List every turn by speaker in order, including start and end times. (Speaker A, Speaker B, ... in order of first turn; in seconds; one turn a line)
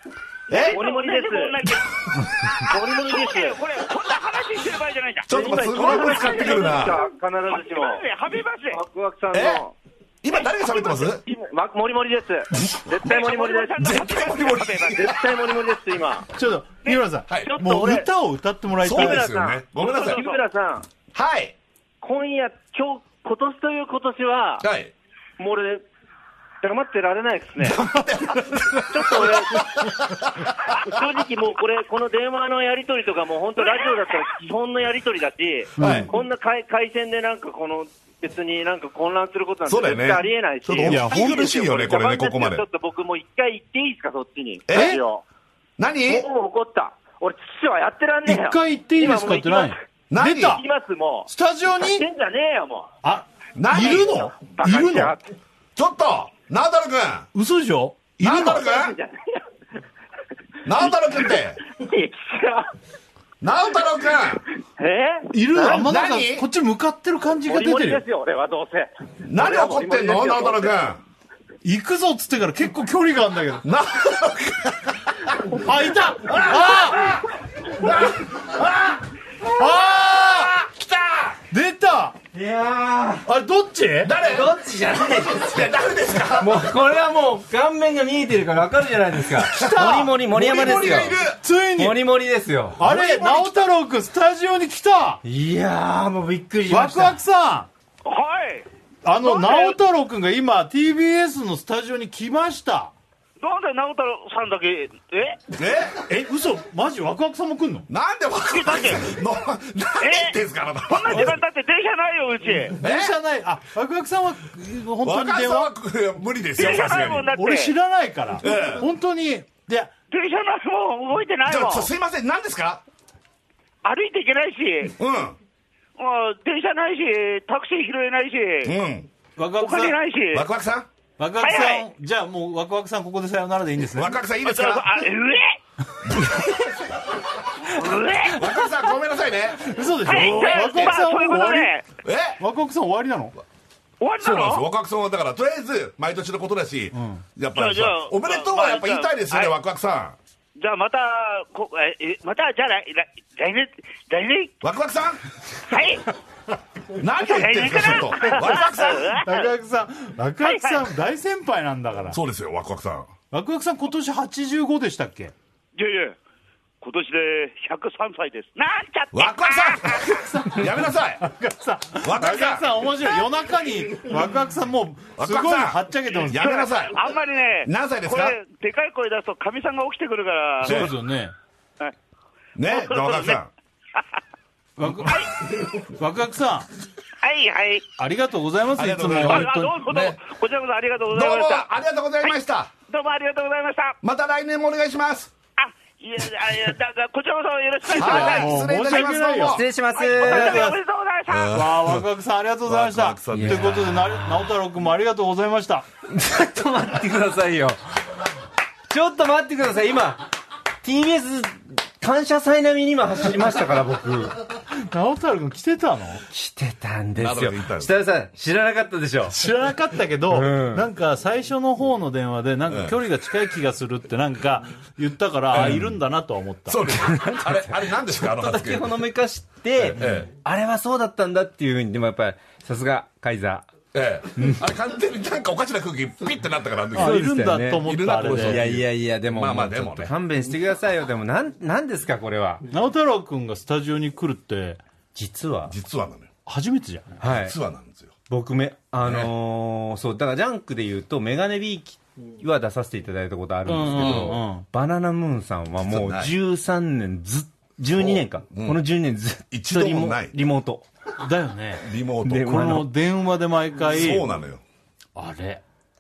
Speaker A: 0.5-0.8
Speaker B: 0.5-1.6
Speaker C: 0.6-8.8
Speaker B: 2.6-3.6
Speaker A: 5.3-7.0
Speaker B: 5.3-8.0
Speaker B: 8.7-9.7
Speaker A: 9.3-9.6
Speaker A: 10.2-11.2
Speaker B: 11.1-13.9
Speaker A: 12.6-12.9
Speaker C: 13.0-15.1
Speaker A: 13.8-15.2
Speaker B: 15.0-16.3
Speaker D: 16.3-19.3
Speaker B: 17.4-18.1
Speaker A: 18.8-20.2
Speaker B: 18.9-20.9
Speaker C: 19.8-20.4
Speaker A: 21.1-21.6
Speaker B: 22.0-24.6
Speaker A: 24.6-24.9
Speaker B: 25.4-25.9
Speaker B: 26.6-27.9
Speaker A: 27.7-30.9
Speaker D: 28.0-28.7
Speaker B: 28.9-29.9
Speaker B: 30.7-45.2
Speaker C: 33.6-34.2
Speaker D: 35.8-36.1
Speaker A: 35.8-36.1
Speaker A: 39.7-42.6
Speaker D: 40.9-41.5
Speaker A: 44.7-45.0
Speaker D: 44.7-45.0
Speaker A: 45.8-46.2
Speaker B: 46.0-49.8
Speaker D: 48.3-50.6
Speaker A: 50.1-50.6
Speaker B: 50.5-52.9
Speaker D: 51.3-52.1
Speaker D: 53.0-55.2
Speaker A: 53.6-54.4
Speaker B: 54.4-55.2
Speaker A: 55.8-57.3
Speaker D: 57.3-58.6
Speaker A: 58.2-59.0
Speaker B: 58.4-59.4
Speaker A: 60.6-61.6
Speaker B: 60.8-62.7
Speaker A: 63.4-64.4
Speaker B: 64.8-65.9
Speaker D: 65.3-68.0
Speaker A: 65.8-66.5
Speaker B: 67.5-70.8
Speaker A: 69.3-71.0
Speaker D: 71.6-73.6
Speaker A: 73.6-75.6
Speaker D: 75.5-77.2
Speaker A: 76.3-79.0
Speaker D: 79.4-80.5
Speaker A: 79.9-81.4
Speaker D: 81.5-82.2
Speaker E: 82.3-83.3
Speaker D: 83.3-84.2
Speaker A: 84.0-84.5
Speaker E: 84.2-85.8
Speaker A: 85.1-86.7
Speaker E: 86.3-92.8
Speaker D: 89.5-92.0
Speaker A: 89.5-91.4
Speaker D: 92.8-95.2
Speaker A: 92.8-93.7
Speaker E: 95.2-97.2
Speaker D: 96.7-97.7
Speaker C: 98.0-98.7
Speaker D: 99.0-102.9
Speaker C: 99.2-99.8
Speaker C: 103.4-105.4
Speaker A: 105.5-106.0
Speaker D: 106.1-107.9
Speaker A: 107.9-111.4
Speaker C: 108.5-109.1
Speaker C: 110.0-112.8
Speaker D: 112.8-115.7
Speaker A: 112.8-113.2
Speaker A: 115.0-117.3
Speaker C: 116.6-117.8
Speaker D: 116.6-119.9
Speaker A: 118.4-118.9
Speaker C: 120.1-121.9
Speaker A: 121.5-122.8
Speaker C: 123.8-125.0
Speaker A: 125.0-125.4
Speaker C: 126.0-128.7
Speaker A: 128.7-129.1
Speaker D: 129.4-130.0
Speaker C: 129.6-130.5
Speaker A: 130.3-130.9
Speaker D: 131.2-134.2
Speaker C: 131.4-131.9
Speaker A: 133.9-134.9
Speaker C: 134.4-135.6
Speaker A: 136.1-136.6
Speaker C: 137.6-138.5
Speaker A: 138.3-141.0
Speaker D: 139.6-141.7
Speaker C: 140.1-141.9
Speaker A: 142.0-142.4
Speaker D: 142.4-143.4
Speaker C: 144.0-144.7
Speaker A: 144.2-150.2
Speaker D: 146.9-147.2
Speaker C: 147.5-149.5
Speaker C: 150.6-154.5
Speaker A: 154.6-155.2
Speaker C: 155.7-156.1
Speaker A: 156.9-159.1
Speaker C: 157.2-159.5
Speaker D: 159.1-162.2
Speaker C: 160.4-160.9
Speaker A: 162.1-163.1
Speaker D: 163.3-165.3
Speaker C: 165.8-166.2
Speaker C: 166.8-170.2
Speaker A: 169.1-171.3
Speaker D: 170.1-176.6
Speaker A: 172.0-173.1
Speaker A: 175.2-177.1
Speaker C: 176.4-180.9
Speaker A: 177.7-178.4
Speaker A: 180.6-180.9
Speaker D: 180.6-181.3
Speaker A: 182.6-183.5
Speaker C: 182.7-183.4
Speaker D: 184.8-185.3
Speaker C: 185.1-185.4
Speaker D: 185.8-186.7
Speaker C: 187.2-187.9
Speaker D: 188.0-189.8
Speaker A: 188.8-190.2
Speaker C: 189.2-191.7
Speaker A: 191.1-192.7
Speaker C: 192.9-193.9
Speaker A: 194.0-195.3
Speaker C: 195.6-198.6
Speaker D: 197.9-199.7
Speaker A: 197.9-199.7
Speaker E: 199.5-200.8
Speaker C: 199.9-201.6
Speaker D: 200.2-200.8
Speaker A: 201.3-202.1
Speaker D: 201.5-205.9
Speaker A: 202.6-204.1
Speaker E: 203.3-204.3
Speaker E: 206.1-207.8
Speaker E: 208.9-210.3
Speaker E: 210.8-214.4
Speaker D: 214.8-216.2
Speaker E: 216.3-219.4
Speaker A: 217.2-218.0
Speaker D: 219.3-226.8
Speaker E: 220.3-220.9
Speaker A: 222.7-223.0
Speaker A: 225.5-226.0
Speaker E: 225.5-225.9
Speaker A: 226.7-229.0
Speaker E: 226.9-233.7
Speaker A: 229.8-230.3
Speaker A: 233.9-240.1
Speaker D: 236.9-238.6
Speaker E: 237.0-242.7
Speaker D: 242.7-244.8
Speaker E: 245.2-245.7
Speaker A: 245.7-246.3
Speaker D: 246.5-247.2
Speaker E: 247.2-247.6
Speaker A: 247.2-248.1
Speaker E: 248.3-260.9
Speaker A: 249.0-249.3
Speaker D: 253.7-254.7
Speaker A: 253.9-254.4
Speaker A: 255.9-256.3
Speaker A: 257.9-258.8
Speaker A: 259.5-260.4
Speaker D: 261.2-264.3
Speaker A: 261.8-262.7
Speaker E: 262.2-262.9
Speaker A: 263.9-264.6
Speaker D: 265.2-265.6